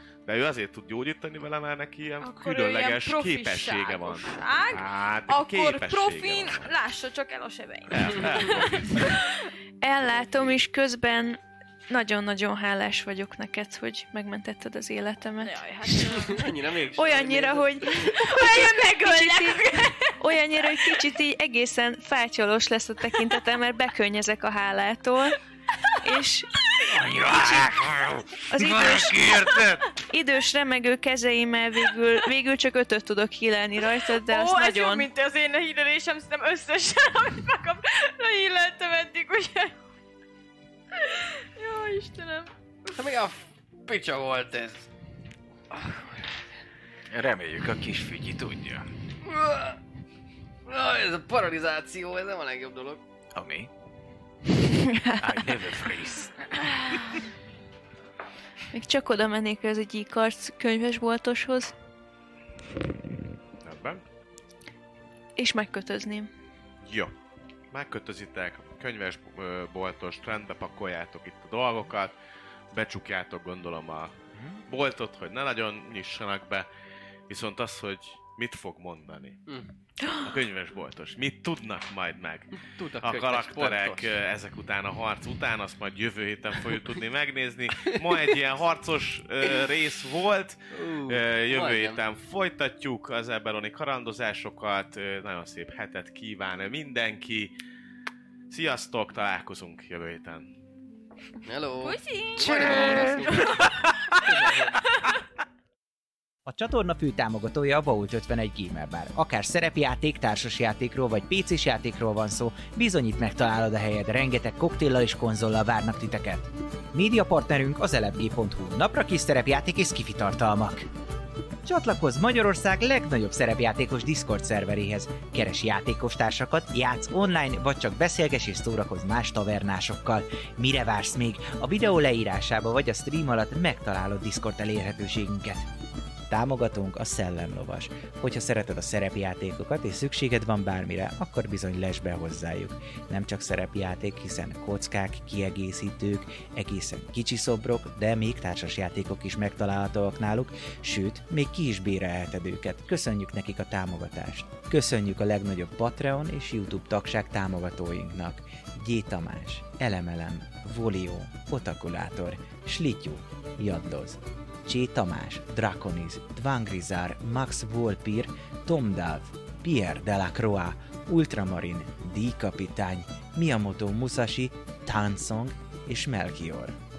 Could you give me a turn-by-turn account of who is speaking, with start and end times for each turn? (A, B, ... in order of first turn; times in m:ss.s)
0:00.3-0:06.7 A
0:02.2-0:09.5 B
0:07.9-0:09.2 A
0:09.8-0:16.2 C
0:15.4-0:16.5 B
0:16.1-0:18.2 D
0:17.0-0:25.4 C
0:18.1-0:20.9 B
0:26.0-0:26.5 C
0:26.8-0:29.9 E
0:27.4-0:27.7 C
0:28.5-0:29.4 C
0:30.0-0:35.1 C
0:34.2-0:39.7 B
0:40.9-0:42.5 B
0:42.9-0:44.9 D
0:45.7-0:46.3 D
0:47.1-0:48.9 E
0:49.2-0:49.8 D
0:50.6-0:53.0 D
0:53.3-0:53.7 E
0:54.7-0:55.4 C
0:55.2-0:56.5 E
0:58.7-1:01.7 C
1:03.6-1:04.0 A
1:05.4-1:06.3 C
1:06.8-1:07.1 A
1:07.7-1:12.1 A
1:12.7-1:14.1 A
1:14.3-1:14.6 E
1:14.6-1:16.7 A
1:17.3-1:19.4 A
1:19.5-1:19.7 D
1:20.0-1:20.3 C
1:20.2-1:37.6 A
1:22.6-1:24.1 D
1:27.8-1:28.3 D
1:30.7-1:32.0 D
1:38.5-1:40.5 A
1:41.4-1:44.8 D
1:41.8-1:43.6 B
1:42.4-1:43.4 E
1:46.4-2:00.9 F
2:01.6-2:15.7 F
2:16.3-2:56.8 F